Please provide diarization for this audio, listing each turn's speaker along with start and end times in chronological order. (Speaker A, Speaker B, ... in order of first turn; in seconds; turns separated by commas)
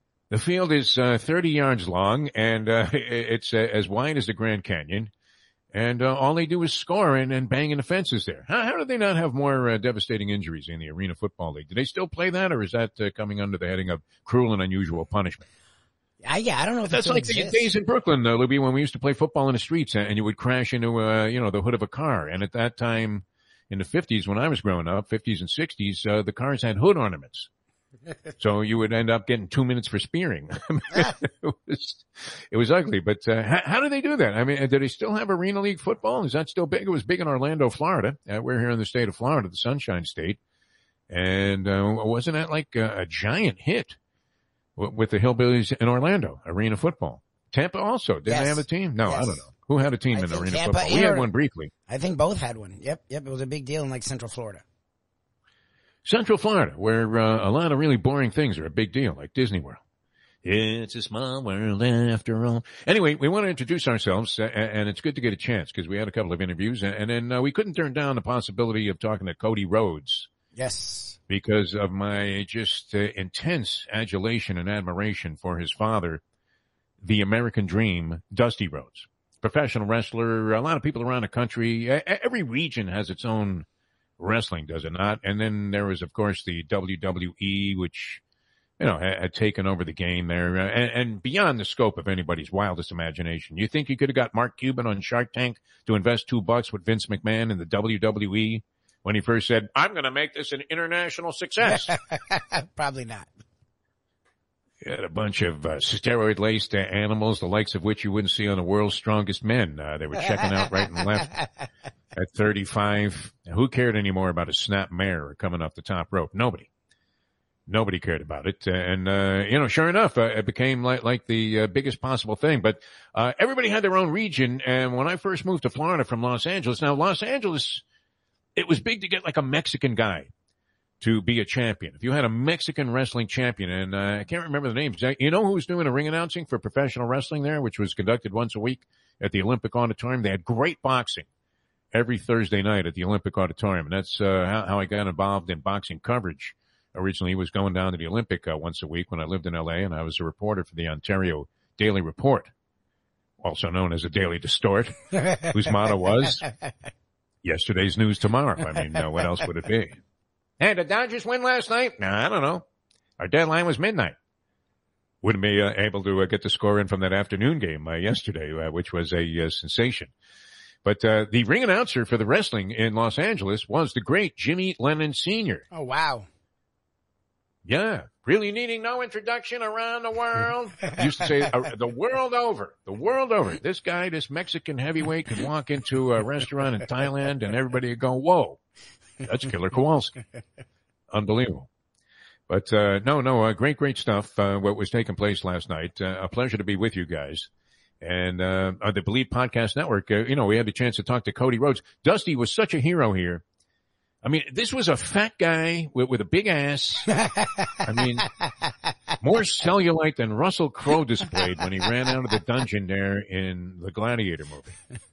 Speaker A: 0.3-5.1, Speaker A: 5.7-15.5, Speaker B: 16.2-17.6, Speaker A: 16.9-27.5, Speaker A: 28.4-40.4, Speaker A: 41.1-44.0, Speaker A: 44.8-51.7, Speaker B: 48.3-49.4, Speaker B: 50.1-51.3, Speaker B: 51.9-54.6, Speaker A: 56.0-59.8, Speaker A: 60.4-70.3, Speaker B: 70.5-71.2, Speaker A: 71.3-76.2, Speaker A: 77.0-83.7, Speaker A: 84.2-88.2, Speaker A: 88.8-101.9, Speaker B: 101.7-103.3, Speaker A: 104.8-111.3, Speaker B: 110.4-111.5, Speaker A: 112.2-116.7, Speaker A: 117.7-127.8, Speaker A: 128.6-130.3, Speaker A: 131.0-141.3, Speaker A: 141.9-152.5, Speaker A: 153.4-156.5, Speaker A: 157.4-160.0, Speaker A: 160.6-162.6, Speaker A: 163.2-164.2, Speaker A: 165.2-170.1, Speaker A: 170.8-175.7, Speaker B: 175.7-176.3, Speaker A: 177.7-188.6, Speaker A: 189.2-190.2, Speaker A: 191.1-191.7, Speaker A: 192.5-197.5, Speaker A: 198.0-203.4, Speaker A: 204.2-208.3, Speaker B: 207.3-207.8, Speaker A: 209.2-214.8